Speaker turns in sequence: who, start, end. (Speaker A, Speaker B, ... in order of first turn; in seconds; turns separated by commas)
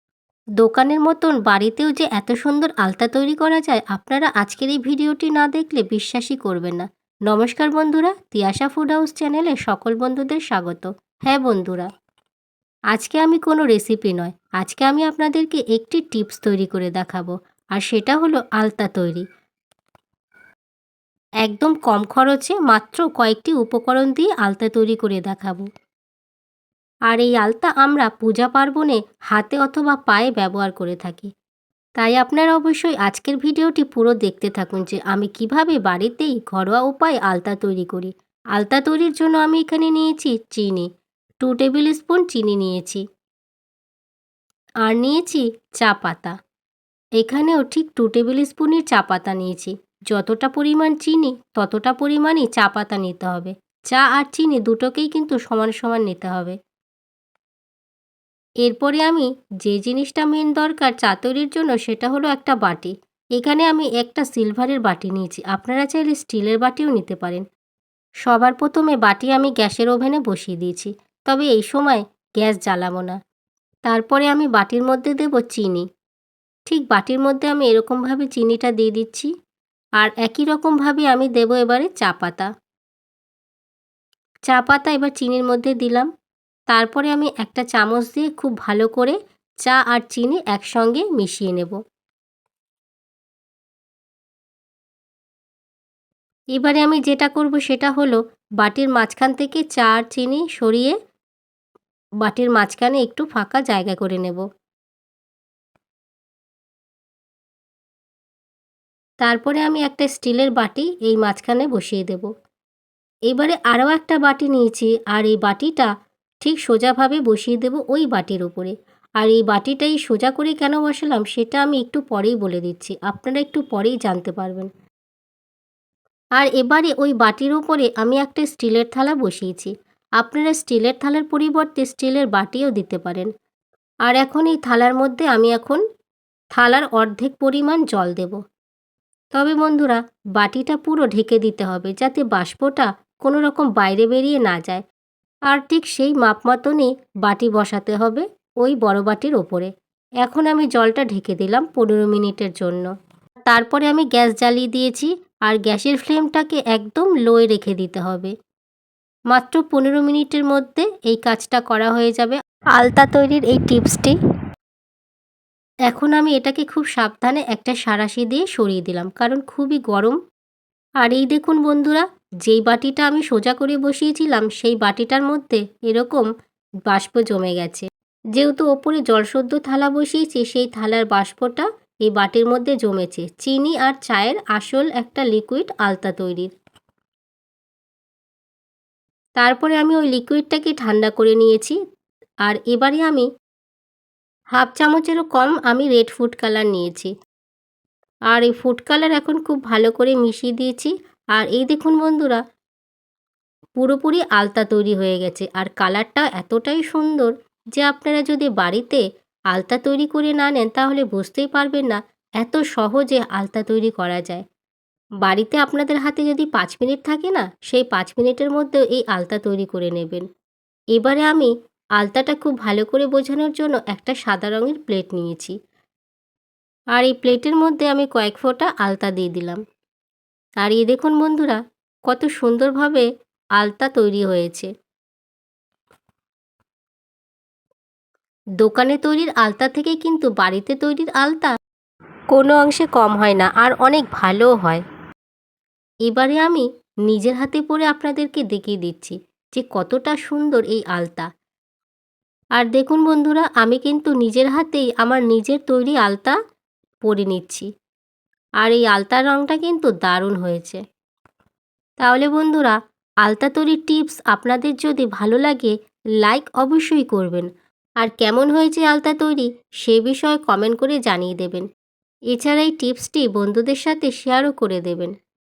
Speaker A: 0.6-11.9, Speaker A: 12.9-19.2, Speaker A: 21.4-25.7, Speaker A: 27.1-31.3, Speaker A: 32.0-40.9, Speaker A: 41.4-43.0, Speaker A: 44.9-46.4, Speaker A: 47.2-56.6, Speaker A: 58.6-67.4, Speaker A: 68.2-73.2, Speaker A: 73.9-75.9, Speaker A: 76.7-79.3, Speaker A: 80.0-82.5, Speaker A: 84.5-86.1, Speaker A: 86.7-91.8, Speaker A: 96.5-101.0, Speaker A: 102.2-104.4, Speaker A: 109.2-112.3, Speaker A: 113.3-115.9, Speaker A: 116.4-124.7, Speaker A: 126.4-133.3, Speaker A: 134.1-135.8, Speaker A: 136.6-138.4, Speaker A: 139.3-144.8, Speaker A: 145.5-149.7, Speaker A: 150.2-152.9, Speaker A: 153.5-158.3, Speaker A: 159.3-164.2, Speaker A: 165.9-170.2, Speaker A: 171.0-176.3, Speaker A: 176.9-186.5, Speaker A: 189.4-191.8, Speaker A: 192.4-193.3, Speaker A: 194.6-197.1, Speaker A: 198.3-202.4, Speaker A: 203.8-214.4, Speaker A: 215.2-220.2, Speaker A: 220.9-225.6, Speaker A: 226.9-229.6, Speaker A: 230.6-233.1, Speaker A: 233.6-234.7, Speaker A: 238.6-241.5, Speaker A: 242.3-244.8, Speaker A: 246.1-251.3, Speaker A: 252.6-256.4, Speaker A: 257.0-257.7, Speaker A: 258.6-260.8, Speaker A: 262.0-267.5, Speaker A: 268.0-271.7, Speaker A: 272.3-275.1